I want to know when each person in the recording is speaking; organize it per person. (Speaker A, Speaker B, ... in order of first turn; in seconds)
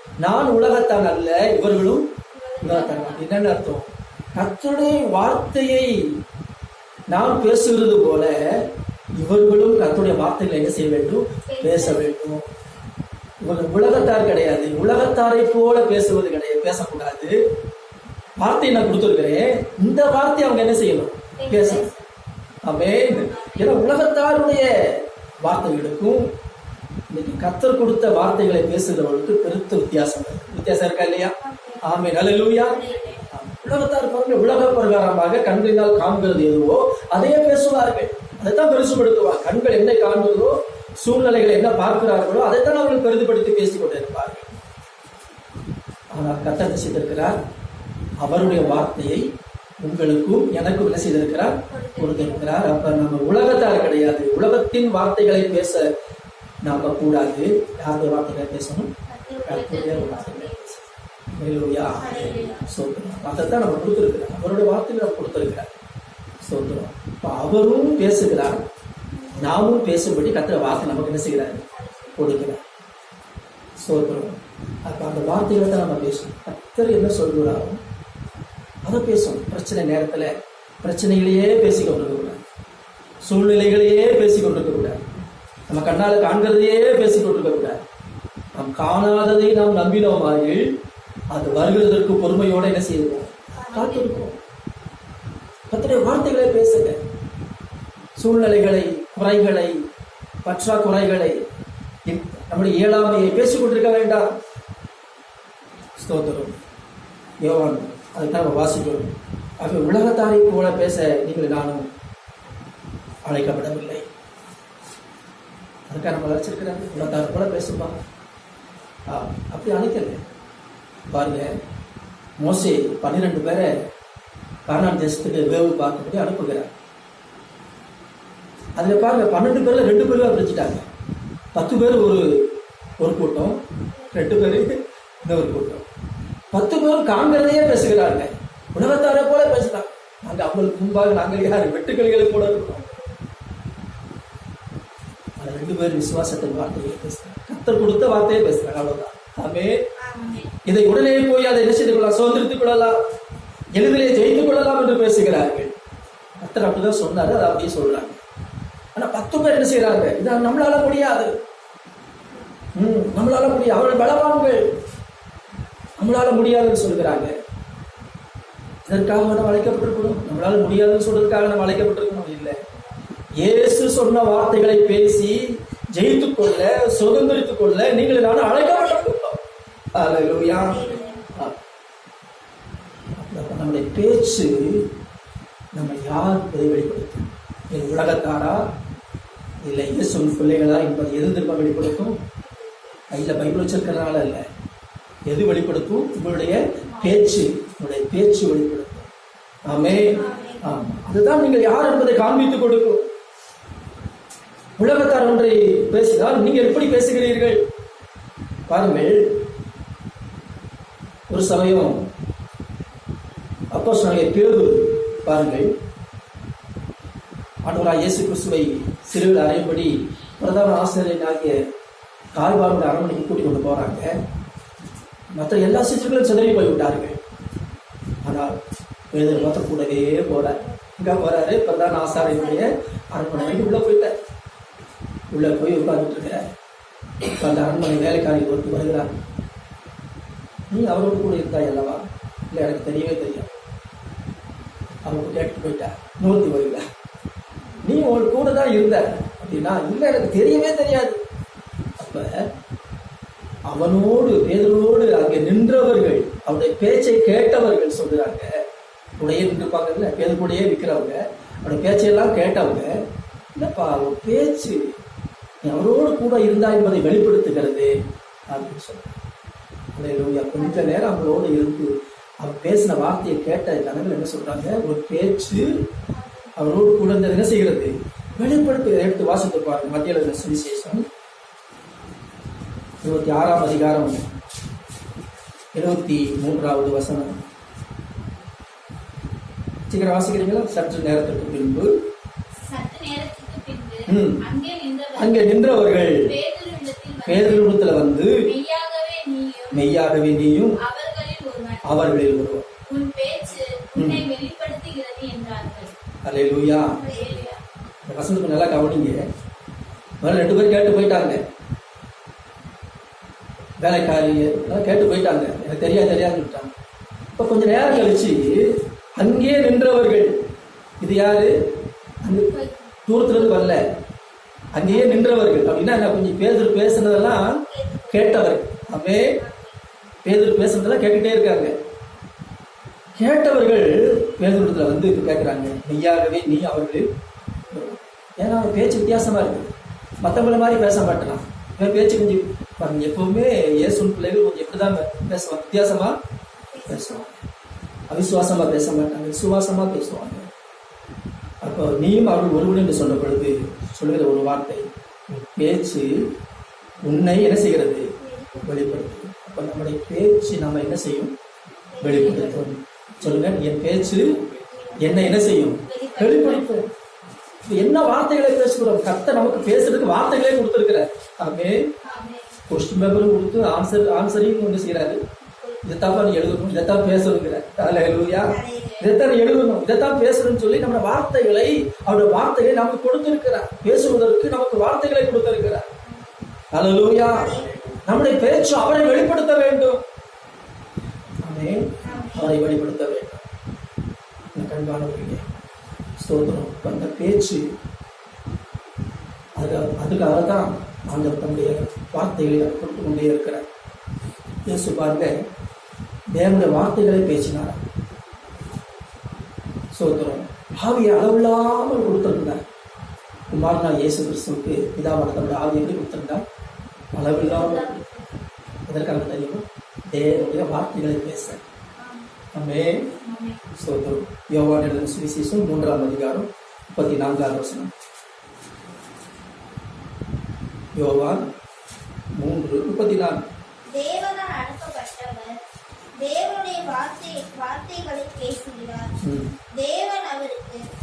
Speaker A: 0.2-2.0, 2.6-6.0, 7.1-8.3, 9.2-12.4, 13.4-17.3, 18.4-21.9, 22.6-26.3, 27.1-44.6, 46.1-47.3, 48.2-49.3, 49.8-55.9, 56.6-58.9, 59.5-60.8, 61.4-65.7, 66.4-68.6, 69.4-72.6, 73.8-77.8, 78.8-82.4, 83.2-85.0, 85.7-87.8, 88.5-90.7, 91.3-94.4, 95.7-97.0, 98.2-99.8, 100.4-101.4, 102.0-104.3, 106.0-106.5, 107.4-111.9, 113.2-114.1, 115.9-117.9, 119.1-120.2, 121.1-121.6, 122.4-123.7, 124.7-126.7, 128.8-130.8, 131.5-135.8, 136.5-142.8, 145.4-149.7, 150.7-152.9, 153.7-155.7, 156.4-158.2, 158.9-161.3, 162.8-164.7, 166.0-167.3, 168.8-172.6, 173.4-179.4, 179.9-181.5, 183.2-184.9, 185.7-188.6, 189.6-192.2, 193.1-194.4, 195.3-199.1, 199.7-203.1, 204.8-207.6, 208.7-209.4, 211.3-212.0, 213.7-215.7, 217.6-221.6, 222.3-224.1, 225.3-227.2, 228.2-228.6, 229.1-234.2, 235.3-236.5, 237.2-239.1, 240.7-243.6, 245.0-246.8, 247.8-251.2, 252.0-252.3, 253.7-258.5, 259.2-262.9, 263.6-264.9, 265.6-267.9, 268.5-269.1, 269.9-275.6, 276.6-281.0, 283.0-284.2, 285.7-287.4, 289.9-291.9, 294.1-294.4, 295.1-296.3, 297.2-298.5, 299.7-300.8, 301.8-302.7, 303.9-304.3, 306.2-307.0, 308.0-309.2, 310.2-311.4, 313.8-316.7, 317.4-320.4, 321.0-321.5, 322.2-323.9, 324.7-329.4, 330.2-331.7, 333.2-337.0, 337.7-346.1, 346.9-347.4, 348.1-350.5, 351.6-356.2, 357.0-361.3, 362.0-364.4, 365.0-366.9, 367.7-371.9, 372.7-375.2, 375.8-385.9, 386.7-390.0, 391.4-393.4, 394.5-395.4, 396.2-397.6, 399.6-403.6, 404.7-405.3, 406.3-407.8, 409.9-412.6, 413.5-416.4, 417.1-417.9, 418.9-421.6, 422.5-423.1, 423.7-427.9, 430.9-431.4, 432.4-433.4, 439.2-439.5
Speaker B: 2.4-3.2, 11.5-12.2, 21.4-22.0, 31.4-31.8, 32.9-33.1, 48.4-48.7, 51.7-52.5, 62.0-62.6, 69.1-69.5, 71.7-72.5, 93.5-94.2, 133.9-134.6, 142.7-143.2, 150.0-150.5, 178.6-179.0, 180.5-181.3, 192.4-192.9, 200.1-200.7, 232.1-232.7, 233.3-233.8, 270.6-271.0, 276.1-276.6, 306.8-307.5, 322.5-322.9, 324.9-325.2, 327.7-328.5, 329.4-329.8, 346.7-347.2, 358.2-358.8, 361.9-362.6, 364.6-365.5, 372.0-372.5, 375.4-375.8, 378.4-379.1, 386.0-386.6, 387.2-388.0, 392.0-392.6, 417.5-417.9, 433.9-435.6, 436.2-439.1, 439.7-440.8
Speaker C: 2.5-3.2, 23.2-23.8, 32.7-33.2, 59.1-60.7, 62.0-62.6, 292.7-295.5, 296.1-297.7, 298.4-299.8, 300.8-301.8, 302.9-305.9, 307.1-307.6, 362.1-362.5, 365.8-366.8, 417.4-418.2, 423.2-423.6